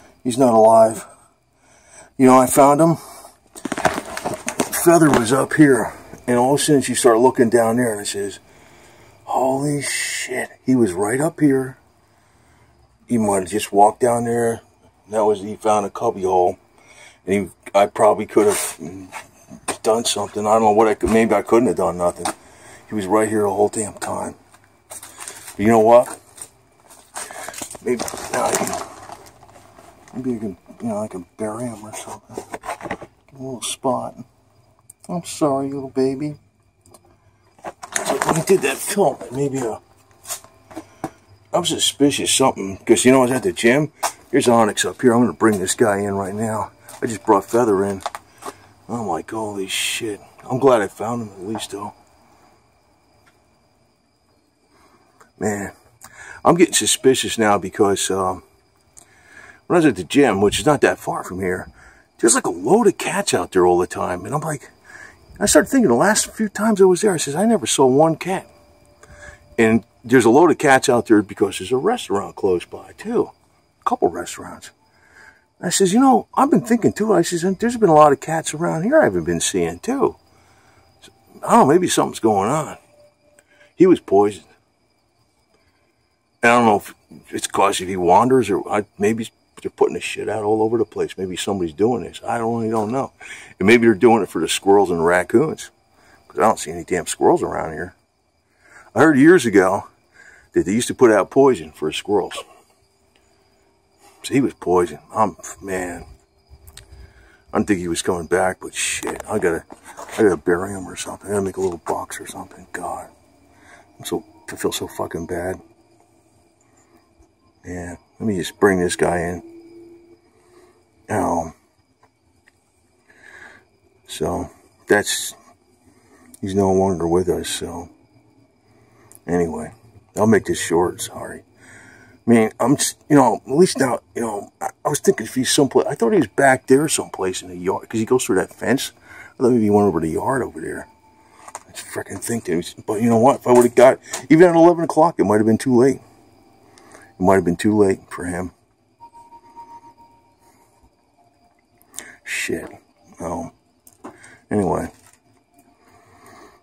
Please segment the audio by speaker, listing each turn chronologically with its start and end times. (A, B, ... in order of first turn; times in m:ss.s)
0:00.2-0:01.1 A
0:02.2-0:03.0 A
0:04.5-0:08.4 A
0:09.3-0:11.8 A
0:13.1-0:16.6 A
0:17.2-0:19.1 A
0:19.7-0:22.3 A
0:22.9-0:24.4 A
0:25.6-0:26.2 A
0:27.8-0:28.9 A
0:30.1-0:32.4 A
0:33.3-0:34.2 A
0:35.1-0:36.4 A
0:37.9-0:39.8 A
0:41.5-0:48.0 A
0:48.9-0:51.9 A
0:55.4-0:55.7 A
0:56.4-0:58.4 A
0:59.7-1:04.7 A
1:05.4-1:08.5 A
1:09.6-1:13.3 A
1:13.8-1:14.7 A
1:15.6-1:20.2 A
1:21.4-1:22.8 A
1:23.8-1:24.5 A
1:26.4-1:35.7 A
1:36.3-1:37.9 A
1:38.9-1:39.8 A
1:40.5-1:42.4 A
1:44.2-1:46.0 A
1:47.5-1:53.1 A
1:54.0-1:55.6 A
1:57.6-1:59.4 A
2:01.1-2:01.5 A
2:04.0-2:05.4 A
2:06.4-2:07.9 A
2:09.2-2:11.4 A
2:12.2-2:20.9 A
2:21.7-2:26.0 A
2:27.2-2:28.5 A
2:32.2-2:33.5 A
2:34.5-2:34.9 A